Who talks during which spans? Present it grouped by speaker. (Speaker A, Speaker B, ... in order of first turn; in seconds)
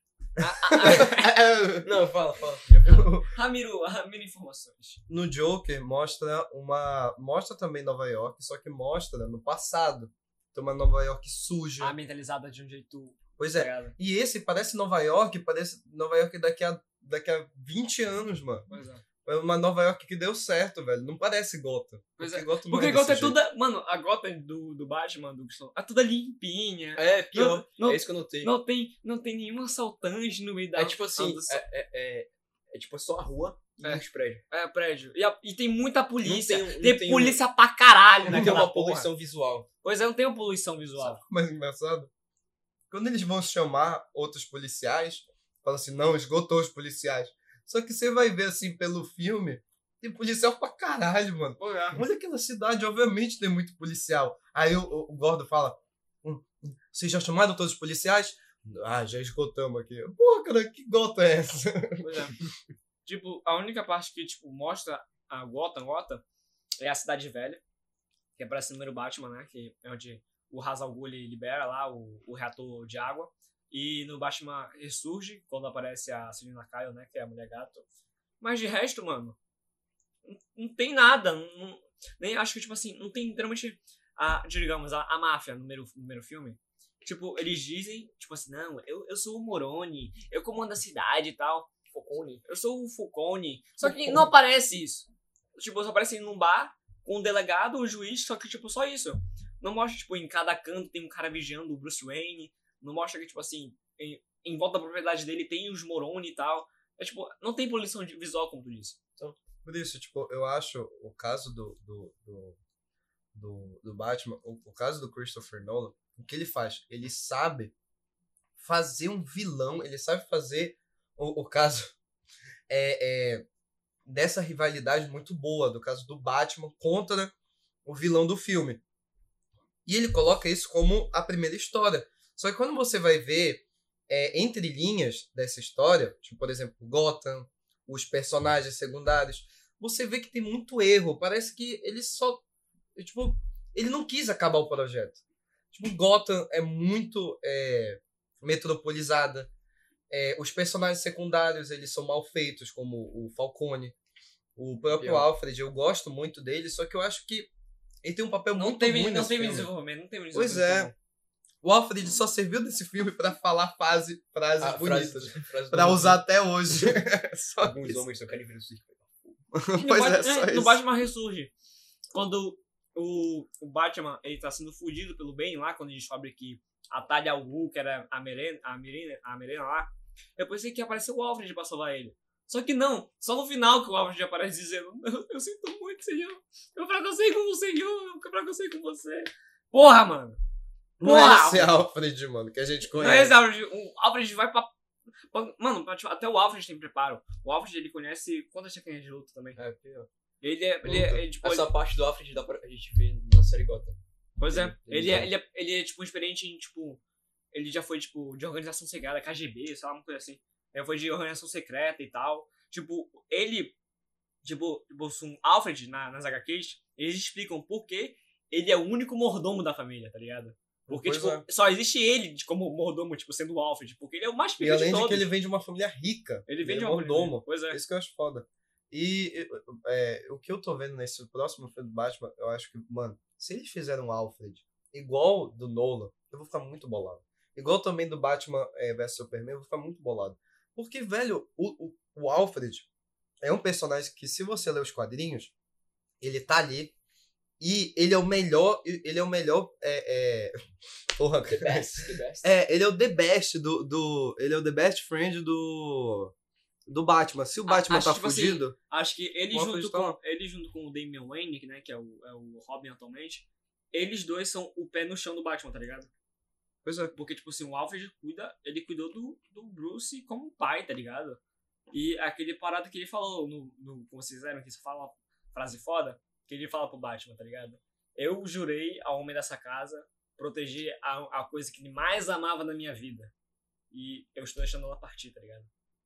Speaker A: 0.4-1.3, 3.2-5.0, 11.8-13.9, 18.7-19.0, 22.2-31.6, 33.8-39.1, 39.8-41.2, 51.6-52.0, 62.0-62.4, 63.0-66.2, 66.8-67.6, 68.4-77.8, 78.4-79.4, 80.2-91.7, 92.4-109.0, 158.5-160.9, 169.7-171.5, 172.1-190.4, 191.0-191.8, 192.9-194.7, 195.3-199.6, 200.4-201.7, 204.4-207.0, 207.5-213.8, 214.4-225.3, 226.5-227.8, 257.7-266.1, 267.1-271.4, 271.9-283.3, 283.9-285.7
Speaker B: 0.6-1.9, 2.8-3.3, 5.1-12.0, 13.4-18.7, 19.2-23.4, 41.0-42.1, 42.9-62.1, 93.9-94.2, 109.6-112.6, 113.3-117.7, 118.6-122.0, 122.7-123.4, 124.0-127.3, 127.8-128.8, 129.8-142.4, 142.9-145.2, 145.7-149.5, 150.1-153.9, 154.6-157.5, 158.0-159.7, 160.3-160.9, 161.6-168.0, 169.5-170.8, 191.0-193.3, 200.8-201.2, 220.9-221.4, 224.6-242.9, 243.4-245.5, 246.2-246.9, 247.6-250.5, 251.1-256.3, 256.9-258.8, 259.5-260.2, 266.8-267.1
Speaker C: 1.8-3.2, 26.9-28.5, 30.7-34.4, 36.2-37.4, 38.2-39.7, 91.9-92.4, 154.9-155.3, 164.6-166.2, 167.6-169.4, 199.6-200.1, 201.4-204.0, 204.5-205.3, 251.5-252.5